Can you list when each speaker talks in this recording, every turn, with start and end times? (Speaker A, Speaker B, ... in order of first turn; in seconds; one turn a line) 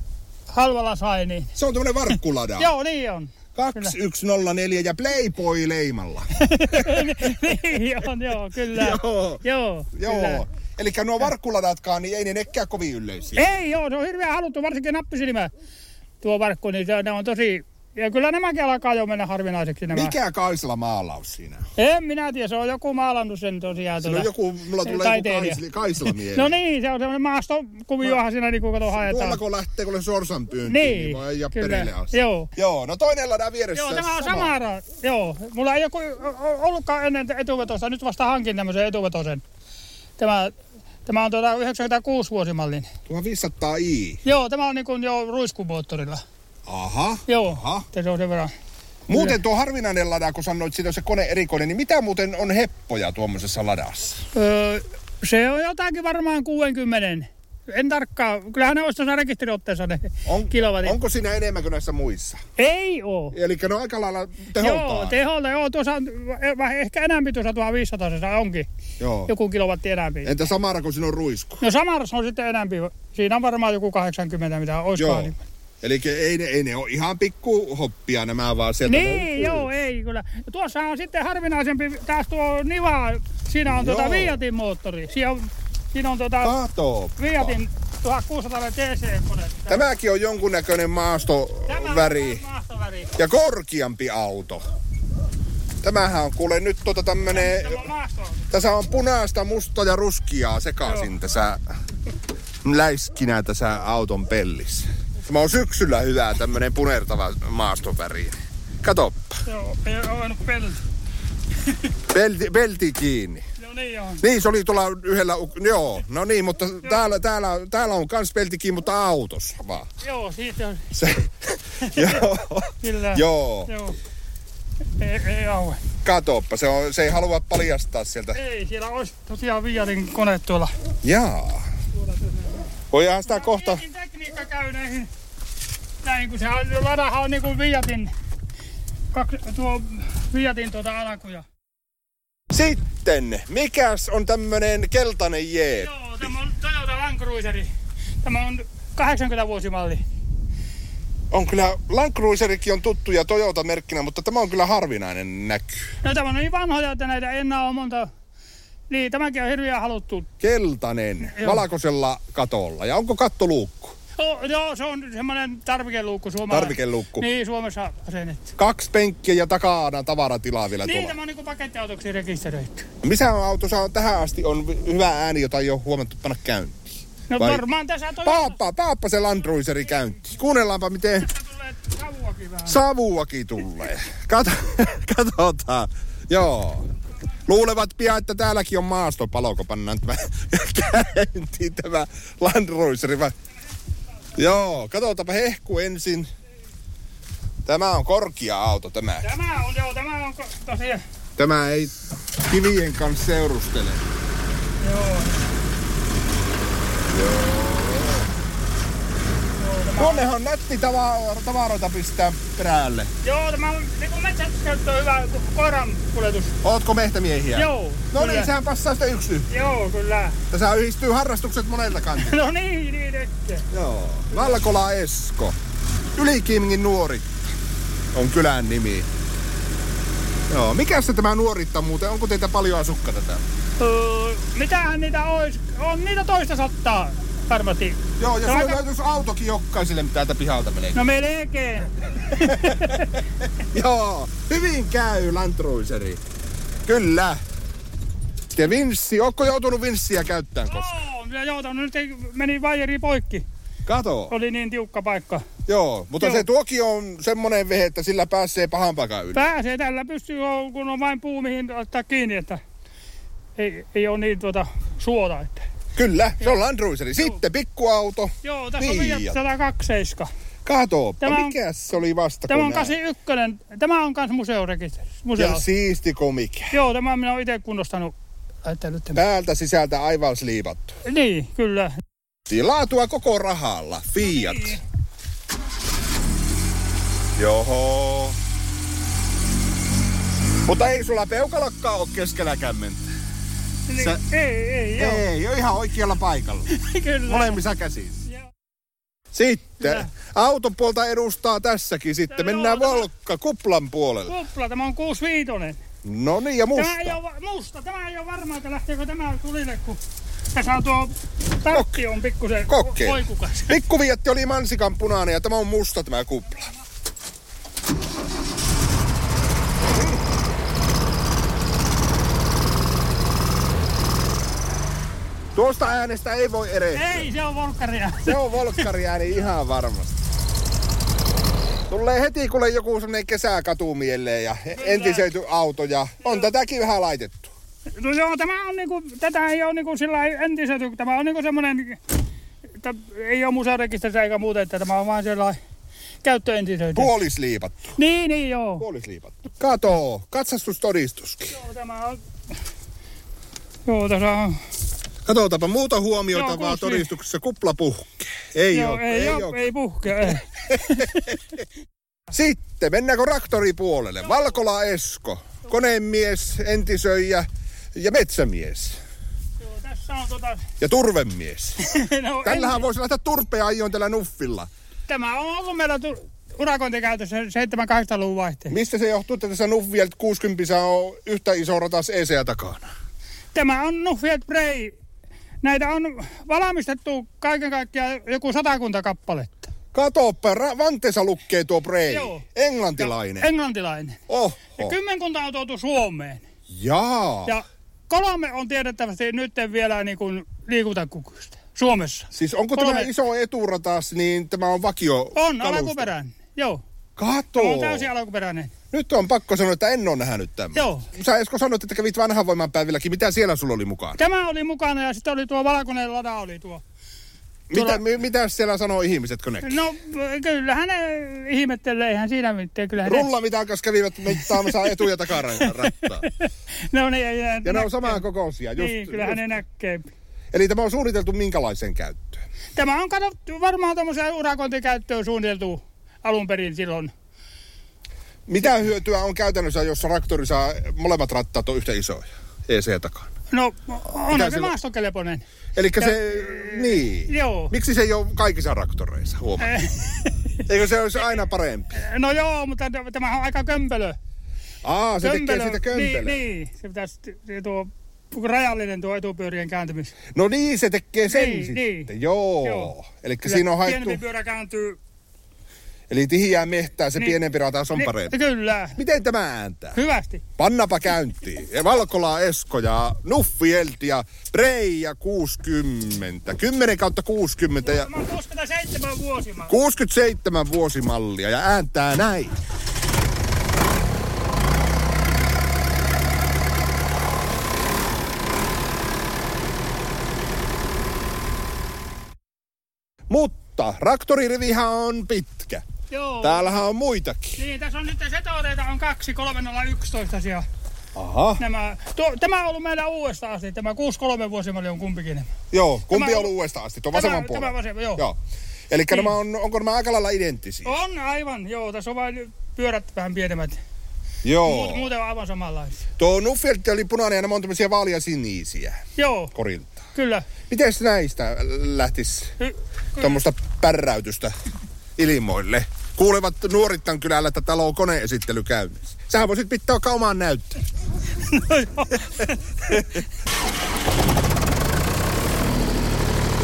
Speaker A: 0.5-1.5
Speaker B: 1.6-2.7
Speaker A: 2.6-4.0
Speaker B: 3.5-7.8
Speaker A: 6.4-10.4
Speaker B: 8.7-9.4
Speaker B: 9.9-13.5
Speaker A: 13.3-15.5
Speaker A: 16.2-20.2
Speaker B: 19.9-21.6
Speaker A: 21.8-24.3
Speaker B: 24.0-26.6
Speaker A: 24.8-25.6
Speaker A: 26.2-29.4
Speaker B: 28.9-34.5
Speaker A: 30.6-32.5
Speaker A: 33.7-39.4
Speaker A: 40.2-40.5
Speaker A: 41.1-42.9
Speaker B: 43.1-44.2
Speaker A: 44.2-46.2
Speaker B: 46.7-47.9
Speaker A: 47.3-48.5
Speaker B: 49.1-54.2
Speaker A: 49.1-49.4
Speaker A: 54.3-61.0
Speaker B: 60.2-62.4
Speaker A: 62.6-63.4
Speaker B: 63.3-65.2
Speaker A: 64.6-68.7
Speaker B: 69.0-69.3
Speaker A: 69.3-70.4
Speaker B: 70.2-71.6
Speaker A: 71.6-75.4
Speaker B: 75.0-79.7
Speaker A: 78.8-86.5
Speaker B: 83.7-84.4
Speaker B: 86.4-87.6
Speaker A: 87.2-89.9
Speaker B: 89.7-92.4
Speaker A: 91.7-93.1
Speaker B: 93.2-94.6
Speaker B: 95.8-97.9
Speaker A: 97.3-98.5
Speaker B: 98.5-101.6
Speaker A: 100.8-101.1
Speaker B: 102.6-109.4
Speaker A: 109.5-110.8
Speaker B: 112.1-113.4
Speaker A: 113.6-114.2
Speaker B: 114.2-119.9
Speaker A: 120.0-120.9
Speaker B: 120.9-123.7
Speaker A: 121.8-122.2
Speaker A: 122.8-124.0
Speaker A: 125.0-125.8
Speaker B: 126.0-128.4
Speaker A: 128.3-130.7
Speaker B: 131.0-131.6
Speaker A: 132.0-132.6
Speaker B: 132.9-133.8
Speaker A: 133.3-135.1
Speaker A: 136.0-138.1
Speaker A: 139.1-141.4
Speaker B: 142.5-145.9
Speaker A: 145.8-147.7
Speaker A: 148.2-150.0
Speaker B: 151.3-155.8
Speaker A: 156.0-158.1
Speaker A: 158.9-160.3
Speaker B: 160.4-164.0
Speaker A: 161.3-161.6
Speaker A: 164.2-168.5
Speaker B: 166.5-167.3
Speaker B: 168.6-171.2
Speaker A: 170.8-172.9
Speaker B: 173.0-177.6
Speaker A: 177.3-178.6
Speaker B: 178.2-181.3
Speaker A: 181.2-182.8
Speaker B: 182.7-186.9
Speaker B: 187.4-193.3
Speaker B: 194.3-196.3
Speaker B: 197.7-199.3
Speaker A: 199.2-201.0
Speaker B: 201.4-204.0
Speaker A: 204.8-205.4
Speaker B: 207.1-208.3
Speaker A: 209.6-210.3
Speaker B: 210.0-213.1
Speaker A: 213.2-216.6
Speaker B: 216.6-219.5
Speaker A: 217.6-218.5
Speaker A: 219.5-220.4
Speaker B: 220.5-222.4
Speaker A: 222.2-223.7
Speaker B: 223.7-225.6
Speaker A: 224.3-224.6
Speaker B: 226.2-227.3
Speaker B: 228.1-229.1
Speaker B: 230.5-233.4
Speaker A: 233.8-238.8
Speaker B: 238.2-241.0
Speaker A: 240.9-243.2
Speaker B: 243.7-246.2
Speaker B: 246.8-247.4
Speaker B: 248.5-251.0
Speaker A: 250.7-253.4
Speaker B: 253.8-254.3
Speaker A: 254.3-255.5
Speaker B: 255.7-259.5
Speaker A: 256.2-256.5
Speaker A: 259.3-262.6
Speaker A: 263.6-265.6
Speaker B: 265.9-269.4
Speaker A: 268.4-270.3
Speaker B: 270.6-272.9
Speaker A: 271.2-271.6
Speaker A: 272.5-275.6
Speaker B: 275.4-276.8
Speaker A: 276.7-278.1
Speaker A: 278.6-279.2
Speaker B: 279.1-281.0
Speaker A: 281.1-281.9
Speaker B: 282.5-284.8
Speaker A: 284.2-284.8
Speaker B: 287.4-288.4
Speaker B: 290.7-293.1
Speaker A: 293.9-295.3
Speaker B: 294.0-294.2
Speaker B: 295.0-296.7
Speaker A: 296.7-297.6
Speaker B: 297.3-298.2
Speaker B: 299.3-304.4
Speaker A: 299.8-300.1
Speaker A: 302.3-303.1
Speaker A: 304.3-305.8
Speaker B: 306.0-307.2
Speaker A: 306.8-310.0
Speaker A: 310.5-313.8
Speaker B: 311.7-312.0
Speaker B: 312.7-316.7
Speaker B: 325.6-327.3
Speaker A: 326.9-328.9
Speaker B: 328.2-330.1
Speaker B: 331.9-337.5
Speaker A: 334.8-335.3
Speaker A: 336.2-336.5
Speaker A: 338.0-342.0
Speaker A: 342.8-345.6
Speaker A: 346.2-347.1
Speaker B: 346.9-347.9
Speaker A: 348.0-348.9
Speaker B: 348.8-351.6
Speaker A: 351.5-352.2
Speaker A: 353.9-354.6
Speaker B: 355.2-359.6
Speaker A: 356.3-357.1
Speaker A: 358.7-361.3
Speaker B: 360.3-361.3
Speaker B: 362.3-369.0
Speaker A: 369.6-370.6
Speaker B: 370.8-371.8
Speaker A: 371.8-372.9
Speaker B: 372.4-374.7
Speaker A: 375.1-378.8
Speaker B: 378.7-382.9
Speaker A: 383.5-384.9
Speaker A: 385.6-389.7
Speaker B: 389.9-393.5
Speaker A: 392.1-392.4
Speaker A: 393.0-394.2
Speaker B: 394.3-394.9
Speaker A: 394.8-396.4
Speaker B: 396.7-397.6
Speaker A: 397.5-403.1
Speaker B: 402.3-406.1
Speaker A: 405.4-406.8
Speaker B: 407.2-408.1
Speaker A: 407.6-408.7
Speaker B: 408.9-414.2
Speaker A: 410.8-411.1
Speaker A: 414.2-416.8
Speaker B: 417.7-419.8
Speaker A: 417.7-418.0
Speaker A: 419.6-423.3
Speaker B: 423.0-426.3
Speaker A: 424.4-425.0
Speaker A: 425.6-428.2
Speaker B: 427.6-429.5
Speaker A: 428.8-430.1
Speaker B: 430.5-432.4
Speaker A: 432.8-437.1
Speaker B: 438.5-443.3
Speaker A: 443.5-445.4
Speaker B: 444.3-444.7
Speaker B: 445.8-449.9
Speaker A: 446.0-447.7
Speaker A: 449.6-450.6
Speaker B: 450.7-452.0
Speaker A: 451.9-454.2
Speaker B: 454.8-456.4
Speaker A: 455.2-460.1
Speaker B: 460.3-464.2
Speaker A: 461.3-462.1
Speaker A: 462.6-462.9
Speaker A: 463.4-465.0
Speaker B: 466.1-468.4
Speaker A: 467.9-469.0
Speaker B: 469.0-470.0
Speaker A: 469.9-470.4
Speaker B: 470.6-478.1
Speaker A: 477.8-479.8
Speaker B: 479.7-482.6
Speaker B: 493.3-495.8
Speaker A: 496.1-496.8
Speaker B: 496.4-497.6
Speaker A: 497.6-500.6
Speaker B: 501.1-501.6
Speaker A: 501.6-505.5
Speaker B: 505.7-508.4
Speaker A: 506.1-506.5
Speaker A: 507.1-508.3
Speaker B: 508.9-510.9
Speaker A: 509.1-509.4
Speaker A: 510.9-513.8
Speaker B: 514.4-515.1
Speaker A: 514.6-516.1
Speaker B: 516.2-519.0
Speaker A: 519.2-519.5
Speaker B: 519.5-520.0
Speaker A: 520.1-520.5
Speaker B: 520.7-522.5
Speaker A: 522.6-523.4
Speaker B: 523.2-524.5
Speaker B: 525.2-530.8
Speaker A: 531.4-533.1